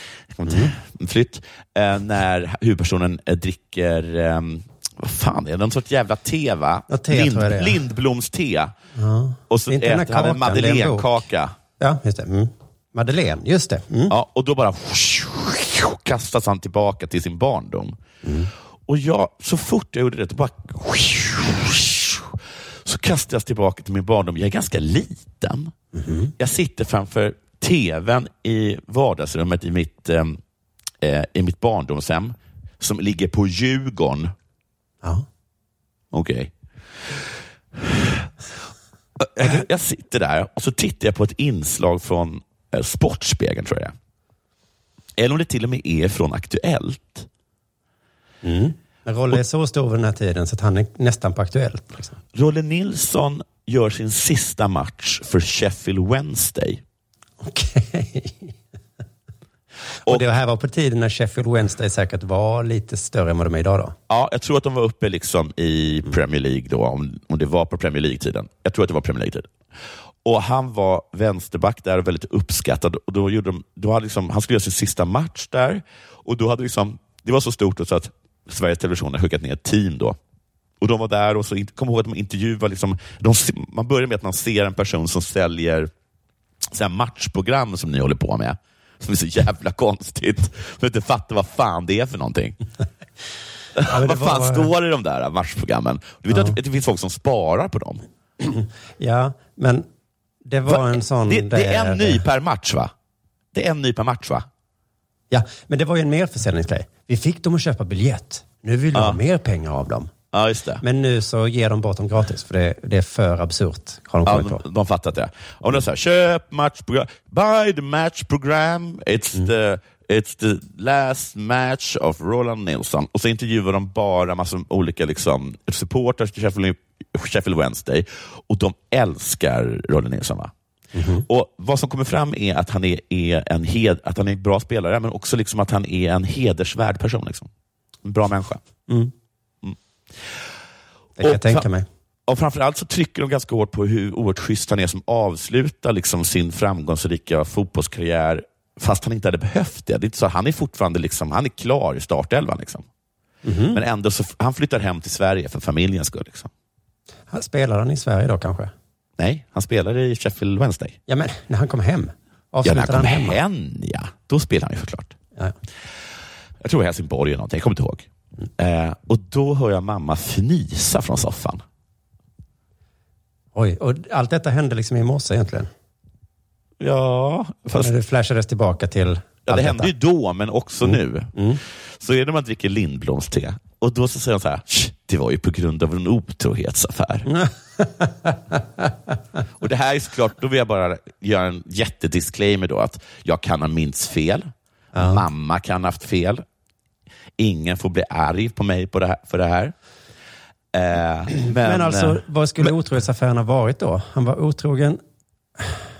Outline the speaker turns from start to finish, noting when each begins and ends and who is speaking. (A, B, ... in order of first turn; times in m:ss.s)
0:00.3-0:08.7 A
0:00.5-0:00.7 B
0:06.9-0:07.8 B
0:08.9-0:11.2 B
0:09.5-0:11.5 A
0:11.8-0:14.1 B
0:14.1-0:18.0 A
0:18.2-0:18.5 B
0:18.9-0:25.7 A
0:25.9-0:26.3 B
0:26.4-0:30.4 A
0:31.0-0:34.3 A
0:36.1-0:38.3 A
0:39.2-0:43.9 A
0:45.2-0:47.3 A
0:48.4-0:52.2 B
0:52.3-0:56.8 A
0:57.4-0:58.5 B
1:00.0-1:04.0 B
1:04.1-1:09.5 A
1:10.2-1:20.2 A
1:20.8-1:25.9 A
1:26.7-1:32.6 A
1:33.8-1:38.0 A
1:33.8-1:34.7 B
1:36.3-1:36.6 B
1:38.4-1:39.9 B
1:40.4-1:42.2 B
1:40.7-1:42.9 A
1:43.5-1:44.5 A
1:45.3-1:50.1 B
1:48.9-1:49.2 A
1:50.3-1:50.8 A
1:50.8-1:54.6 B
1:54.2-2:10.5 A
2:10.9-2:11.2 B
2:11.3-2:17.5 A
2:18.0-2:18.6 A
2:18.9-2:19.1 B
2:19.6-2:20.3 A
2:21.2-2:21.8 B
2:21.2-2:21.6 A
2:22.3-2:32.8 A
2:33.4-2:33.8 B
2:33.7-2:36.5 A
2:37.3-2:38.7 B
2:39.2-2:41.0 A
2:41.1-2:43.4 B
2:42.6-2:45.2 A
2:46.6-2:51.6 A
2:53.5-2:55.7 B
2:56.8-2:57.9 A
2:57.8-2:59.9 B
2:59.5-3:01.3 A
3:00.8-3:01.6 B
3:02.0-3:07.3 A
3:07.2-3:08.6 B
3:09.6-3:16.4 A
3:14.9-3:15.2 B
3:17.4-3:19.7 A
3:20.7-3:22.2 A
3:21.6-3:25.0 B